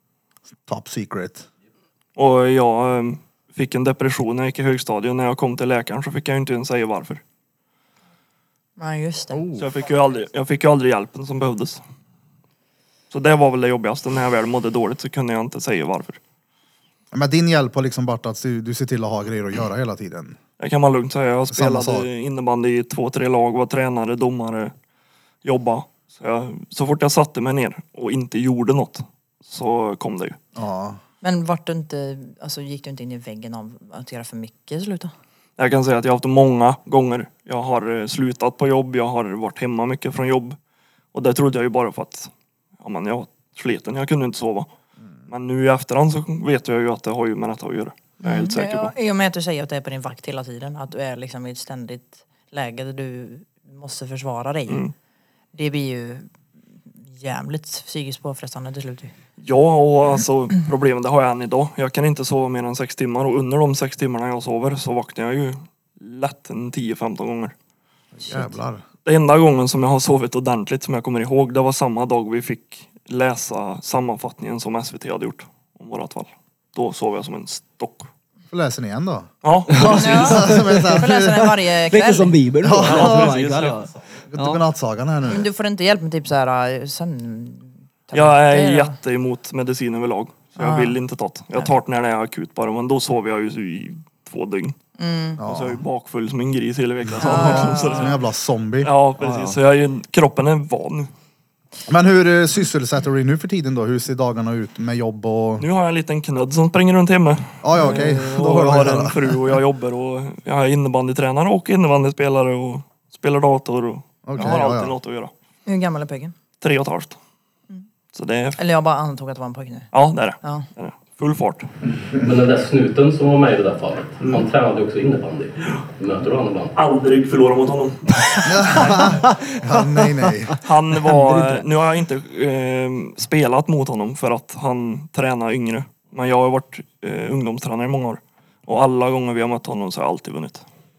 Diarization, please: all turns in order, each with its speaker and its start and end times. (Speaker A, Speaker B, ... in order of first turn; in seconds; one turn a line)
Speaker A: 0.7-1.4
Speaker B: 2.1-7.2
Speaker C: 8.8-9.4
Speaker A: 9.3-9.7
Speaker B: 9.6-11.8
Speaker B: 13.1-16.2
Speaker A: 17.1-20.4
Speaker B: 20.6-24.7
Speaker A: 21.5-22.1
Speaker B: 25.4-30.4
Speaker A: 30.5-31.0
Speaker C: 31.2-35.1
Speaker B: 35.6-40.6
Speaker B: 41.1-44.7
Speaker B: 45.3-48.9
Speaker C: 48.2-54.9
Speaker C: 55.5-56.3
Speaker C: 57.1-59.1
Speaker B: 59.4-67.5
Speaker A: 68.2-68.8
Speaker B: 69.0-78.1
Speaker A: 78.5-79.3
Speaker B: 79.4-80.5
Speaker D: 79.7-80.9
Speaker C: 79.8-82.4
Speaker A: 80.1-81.6
Speaker D: 81.9-84.6
Speaker A: 82.6-83.4
Speaker B: 82.8-83.8
Speaker A: 84.3-85.5
Speaker C: 85.3-89.0
Speaker B: 88.1-94.7
Speaker C: 90.6-91.0
Speaker C: 95.0-95.4
Speaker A: 95.4-95.8
Speaker B: 95.4-98.2
Speaker A: 97.0-98.9
Speaker C: 97.2-98.1
Speaker B: 98.8-101.1
Speaker D: 99.2-99.5
Speaker A: 101.9-105.6
Speaker B: 105.6-115.3
Speaker A: 107.6-109.6
Speaker A: 114.2-114.9
Speaker C: 115.7-116.3
Speaker B: 116.6-117.2
Speaker B: 118.1-118.6
Speaker C: 118.5-119.9
Speaker B: 119.9-121.7
Speaker E: 122.1-126.7
Speaker B: 126.7-129.2
Speaker A: 128.4-130.6
Speaker D: 129.0-131.6
Speaker B: 130.6-140.6